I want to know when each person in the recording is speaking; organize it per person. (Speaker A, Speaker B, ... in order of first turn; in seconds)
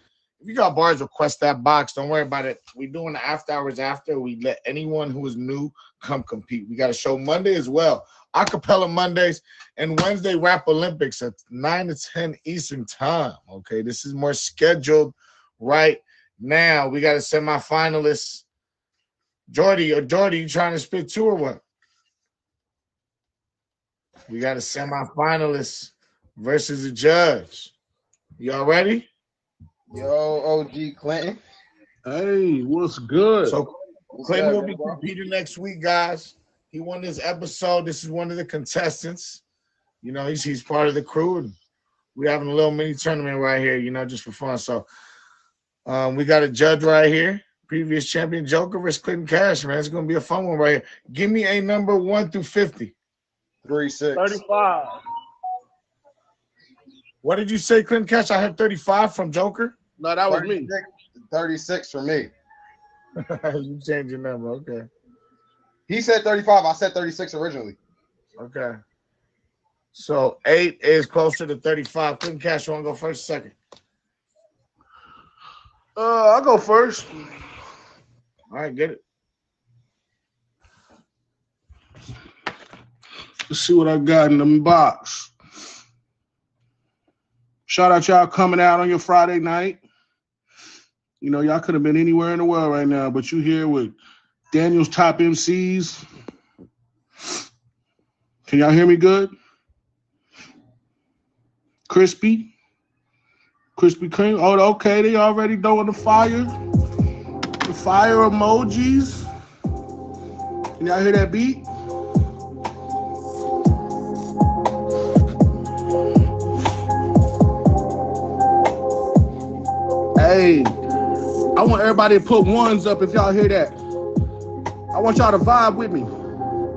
Speaker A: 0.4-18.4, 19.5-21.6, 24.3-27.7, 28.4-29.1, 33.5-39.4, 40.0-41.5, 42.1-44.9, 45.9-53.0, 54.2-54.9, 57.2-59.8, 63.2-64.9, 68.4-68.8, 69.9-73.6, 78.5-79.0
Speaker B: 29.9-31.4, 34.1-35.0, 53.6-54.4, 60.3-62.3, 65.9-67.8
Speaker C: 32.1-33.6, 60.0-60.7, 76.0-77.1, 83.5-85.3, 87.7-89.8, 91.2-94.0, 94.5-96.0, 98.5-99.3, 101.9-102.5, 103.8-106.5, 107.7-109.2, 110.8-111.7, 120.2-120.8, 121.5-123.8, 124.9-126.1